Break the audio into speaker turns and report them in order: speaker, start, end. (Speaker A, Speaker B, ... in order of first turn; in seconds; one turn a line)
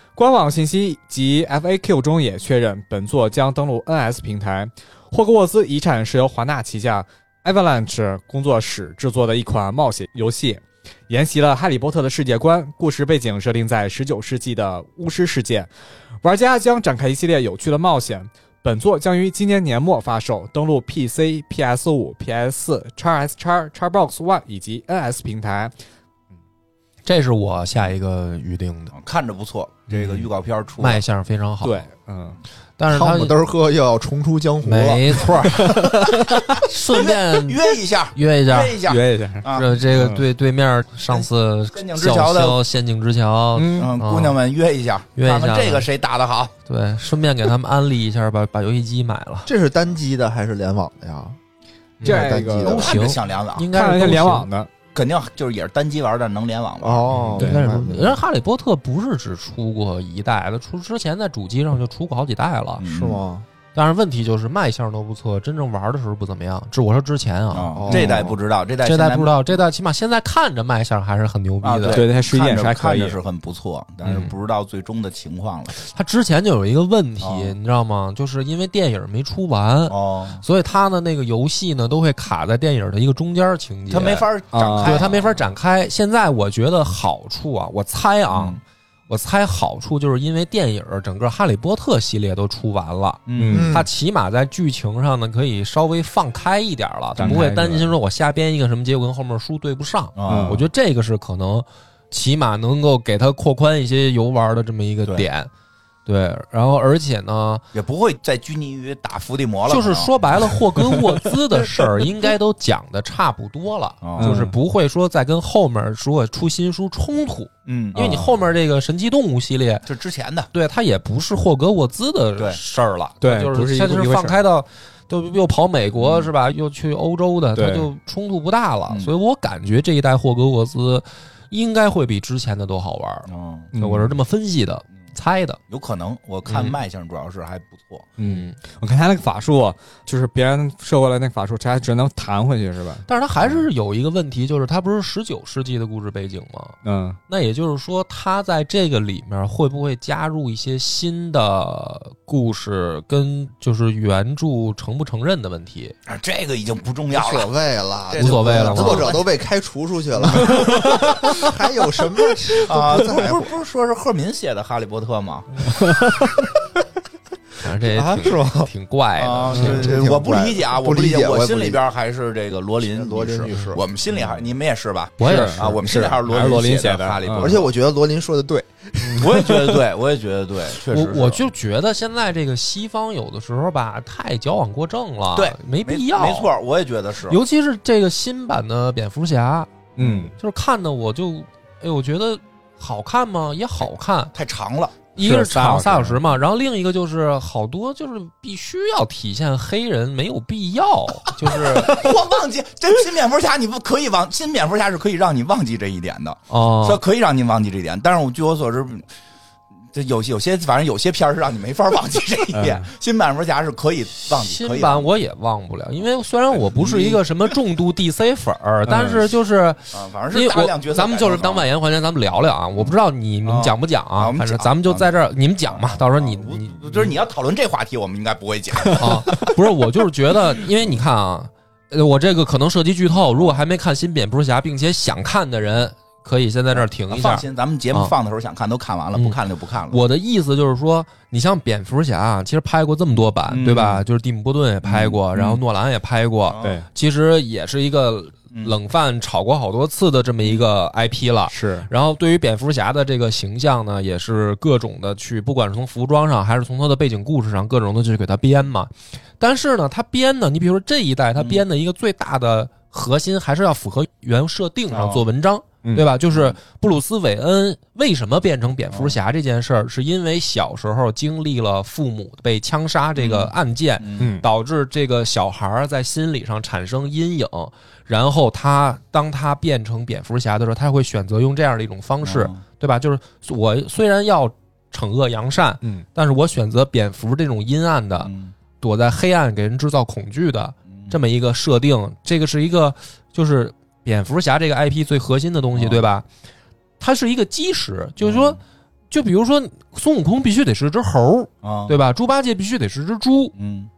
Speaker A: 0.2-15.7
Speaker A: 16.2-25.7
Speaker B: 27.1-28.9
Speaker C: 28.9-31.0
Speaker B: 30.0-31.9
Speaker A: 31.6-32.4
Speaker B: 32.8-33.4
Speaker D: 32.9-35.8
Speaker B: 34.6-38.8
Speaker A: 35.6-36.3
Speaker C: 36.9-39.8
Speaker A: 38.9-40.2
Speaker B: 39.5-44.4
Speaker C: 41.1-42.6
Speaker A: 43.5-43.9
Speaker C: 43.8-46.5
Speaker B: 45.2-45.9
Speaker B: 46.7-49.5
Speaker D: 49.5-51.4
Speaker B: 52.0-54.5
Speaker A: 52.0-52.8
Speaker D: 52.0-53.0
Speaker C: 52.6-53.7
Speaker A: 53.7-54.7
Speaker C: 54.9-57.1
Speaker D: 56.8-58.2
Speaker B: 57.1-62.8
Speaker A: 57.4-57.6
Speaker C: 62.8-63.2
Speaker D: 62.9-63.5
Speaker B: 63.8-68.2
Speaker C: 67.5-69.6
Speaker D: 67.7-68.3
Speaker A: 67.9-68.1
Speaker B: 68.8-72.0
Speaker C: 71.6-75.8
Speaker A: 71.9-73.2
Speaker B: 74.0-74.3
Speaker B: 75.8-84.3
Speaker C: 77.2-77.6
Speaker C: 79.9-80.4
Speaker C: 83.9-85.5
Speaker A: 84.5-85.0
Speaker B: 84.8-105.5
Speaker C: 88.3-88.6
Speaker C: 93.3-93.7
Speaker A: 93.4-93.7
Speaker D: 93.5-93.9
Speaker A: 97.2-97.9
Speaker C: 97.2-97.5
Speaker C: 100.2-100.6
Speaker A: 100.2-100.6
Speaker B: 106.1-107.7
Speaker C: 107.7-110.1
Speaker B: 109.7-119.9
Speaker C: 114.0-114.4
Speaker A: 114.2-114.6
Speaker C: 117.7-118.3
Speaker A: 118.0-118.3
Speaker C: 119.9-120.5
Speaker B: 120.5-135.6
Speaker A: 123.2-124.4
Speaker C: 126.0-126.3
Speaker A: 127.5-127.9
Speaker C: 133.3-133.7
Speaker A: 133.8-134.1
Speaker C: 135.7-138.1
Speaker B: 136.5-136.8
Speaker A: 138.2-143.1
Speaker B: 138.2-138.6
Speaker B: 143.1-146.8
Speaker A: 146.8-147.2
Speaker B: 147.3-155.9
Speaker C: 156.1-157.5
Speaker D: 157.1-163.5
Speaker C: 158.1-159.3
Speaker B: 158.1-159.2
Speaker B: 160.3-161.3
Speaker C: 162.6-165.7
Speaker A: 165.7-166.3
Speaker B: 167.6-170.0
Speaker D: 167.9-168.7
Speaker C: 169.2-177.7
Speaker A: 169.5-169.8
Speaker D: 169.5-171.8
Speaker D: 172.8-173.8
Speaker B: 173.5-173.7
Speaker B: 175.2-175.8
Speaker A: 175.2-177.6
Speaker D: 177.4-179.4
Speaker C: 179.1-181.4
Speaker B: 180.9-186.5
Speaker C: 185.3-187.4
Speaker B: 187.3-194.3
Speaker A: 190.0-190.3
Speaker C: 194.3-195.0
Speaker B: 195.2-202.1
Speaker A: 195.2-196.2
Speaker C: 201.4-209.1
Speaker B: 206.5-207.0
Speaker C: 209.9-215.1
Speaker A: 212.5-212.9
Speaker B: 214.2-227.1
Speaker C: 216.5-217.2
Speaker A: 218.9-219.3
Speaker C: 219.9-221.7
Speaker C: 223.4-225.1
Speaker C: 225.7-229.5
Speaker A: 228.9-229.5
Speaker B: 228.9-238.1
Speaker C: 233.3-233.6
Speaker C: 236.7-240.0
Speaker B: 239.9-296.2
Speaker C: 243.5-244.0
Speaker C: 244.8-245.6
Speaker C: 246.5-246.8
Speaker C: 250.4-250.7
Speaker A: 251.5-251.9
Speaker C: 264.9-265.2
Speaker C: 266.3-266.6
Speaker C: 268.9-269.2
Speaker C: 273.2-274.3
Speaker A: 274.2-274.5
Speaker C: 282.2-282.6
Speaker C: 288.2-288.5
Speaker C: 295.8-296.0
Speaker B: 297.0-298.6
Speaker C: 298.2-298.6
Speaker B: 299.1-303.5
Speaker C: 301.6-301.9
Speaker C: 303.6-303.9